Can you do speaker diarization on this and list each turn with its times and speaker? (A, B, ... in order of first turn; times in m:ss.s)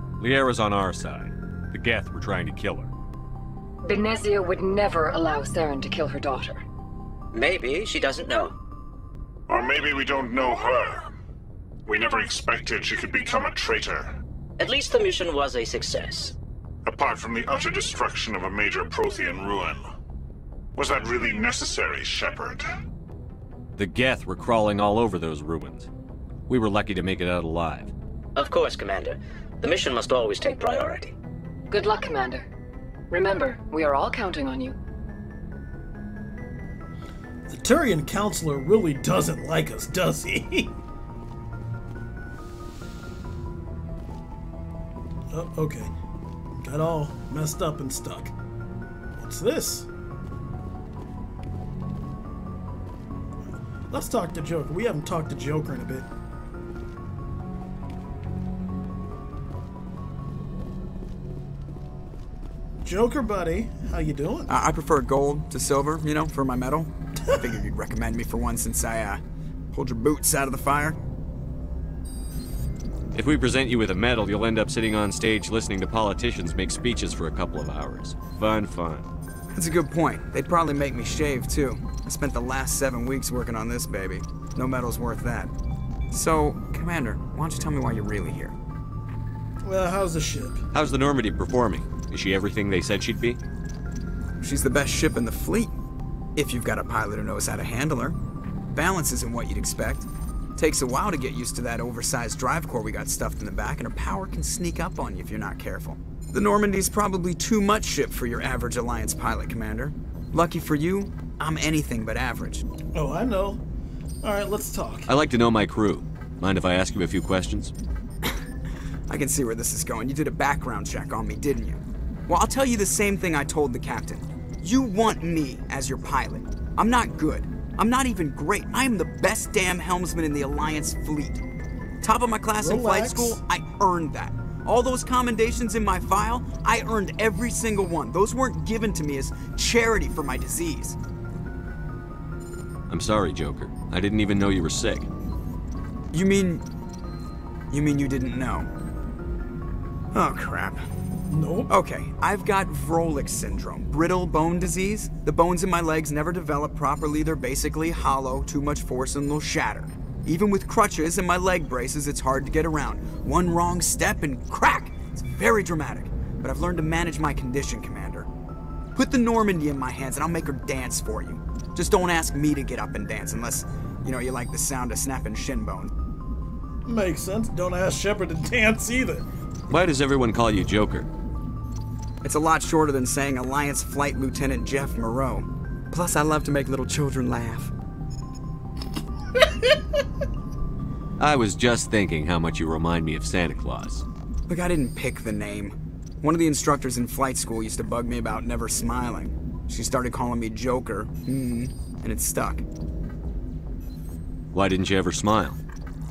0:00.2-0:02.9 A
0:03.8-0:06.6 B
0:07.3-0:08.5 C
0:09.5-0:11.1 D
0:11.9-0:14.1 D
0:14.6-0:16.3 C
0:16.8-0:19.8 D
0:20.7-0:22.7 D
0:23.8-0:25.9 A
0:26.5-0:27.9 A
0:28.3-0:31.1 C
0:31.7-0:32.4 B
0:33.1-0:34.8 B
0:37.5-0:40.7 E
0:45.3-0:45.9 E
0:46.5-0:48.3 E
0:49.2-0:49.9 E
0:53.9-0:56.1 E
1:02.8-1:04.5 E
1:04.5-1:11.0 F
1:13.1-1:19.1 A
1:19.5-1:25.5 F
1:26.1-1:28.5 F
1:29.6-1:30.6 E
1:30.7-1:33.4 A
1:34.4-1:35.7 F
1:36.4-1:38.2 F
1:38.7-1:52.6 F
1:52.9-1:53.6 E
1:54.2-1:55.1 E
1:55.1-1:57.7 A
1:59.1-2:11.4 F
2:12.0-2:21.0 F
2:12.6-2:13.4 E
2:22.9-2:25.1 A
2:26.1-2:26.6 F
2:27.7-2:28.7 F
2:30.1-2:30.8 F
2:31.3-2:31.7 E
2:31.7-2:48.3 F
2:48.9-2:55.9 F
2:56.8-2:59.2 E
2:59.7-3:01.1 A
3:02.2-3:07.7 F
3:11.2-3:14.0 A
3:14.5-3:22.6 F
3:24.5-3:25.6 A